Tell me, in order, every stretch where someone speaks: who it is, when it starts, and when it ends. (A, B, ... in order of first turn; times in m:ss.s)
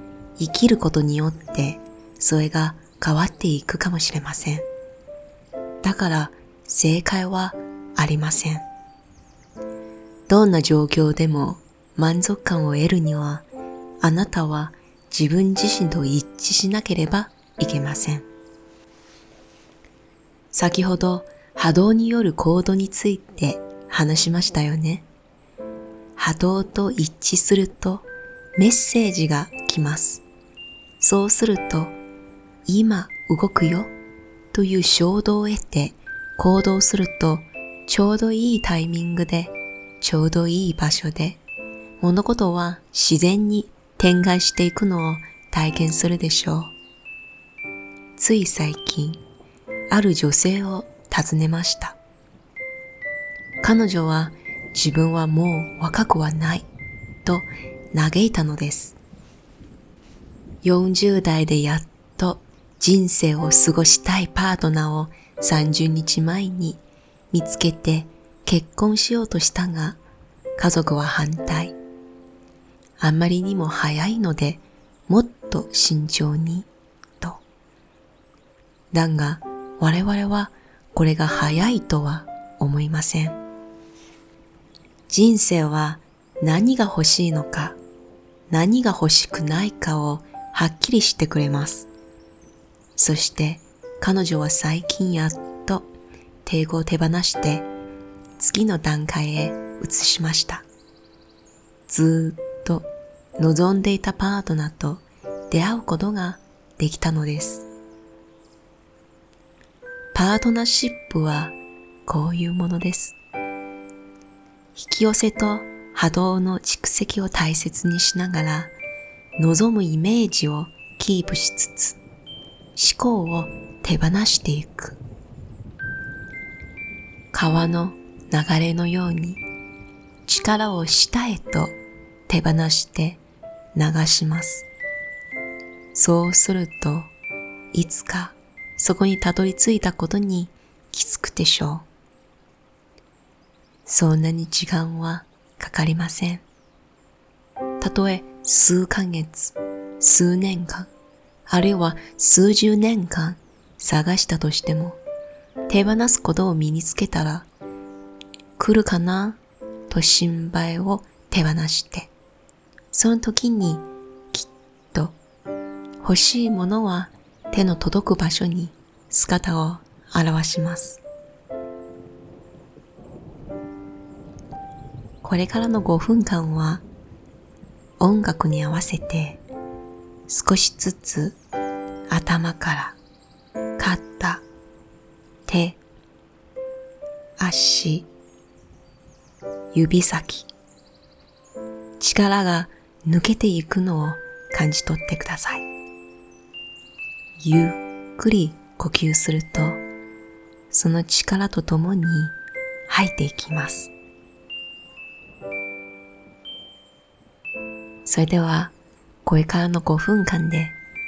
0:00.4-0:04.6 A
0:05.8-0:08.7 A
0:10.3-0:13.5 A
0:14.0-0:18.3 A
0:20.5-0:25.1 A
0:26.2-0:30.2 A
0:31.0-0:32.0 A
0:32.6-0:33.9 A
0:34.5-0:41.4 A
0:42.0-0:46.7 A
0:48.2-0:49.2 A
0:49.9-0:52.0 A
0:53.6-0:56.6 A
0:57.2-0:59.0 A
1:00.6-1:10.0 A
1:10.6-1:11.8 A
1:13.0-1:17.4 A
1:18.9-1:23.4 A
1:25.1-1:27.8 A
1:28.5-1:31.9 A
1:33.0-1:35.9 A
1:36.4-1:37.7 A
1:38.4-1:40.6 A
1:41.9-1:47.7 A
1:50.1-1:53.2 A
1:54.7-1:58.7 A
1:59.4-2:02.0 A
2:02.8-2:05.0 A
2:07.3-2:09.4 A
2:10.2-2:11.8 A
2:12.3-2:13.2 A
2:13.7-2:14.7 A
2:15.9-2:17.1 A
2:17.7-2:21.9 A
2:23.8-2:26.4 A
2:27.8-2:30.9 A
2:31.5-2:35.0 A
2:35.7-2:37.5 A
2:38.6-2:42.1 A
2:42.9-2:45.2 A
2:46.0-2:51.0 A
2:55.2-2:56.8 A
2:58.0-2:59.4 A
3:00.3-3:01.4 A
3:02.1-3:03.0 A
3:03.8-3:04.4 A
3:05.5-3:05.8 A
3:07.4-3:08.1 A
3:09.7-3:10.5 A
3:12.0-3:15.7 A
3:17.4-3:19.8 A
3:20.7-3:22.4 A
3:22.9-3:23.9 A
3:28.0-3:30.8 A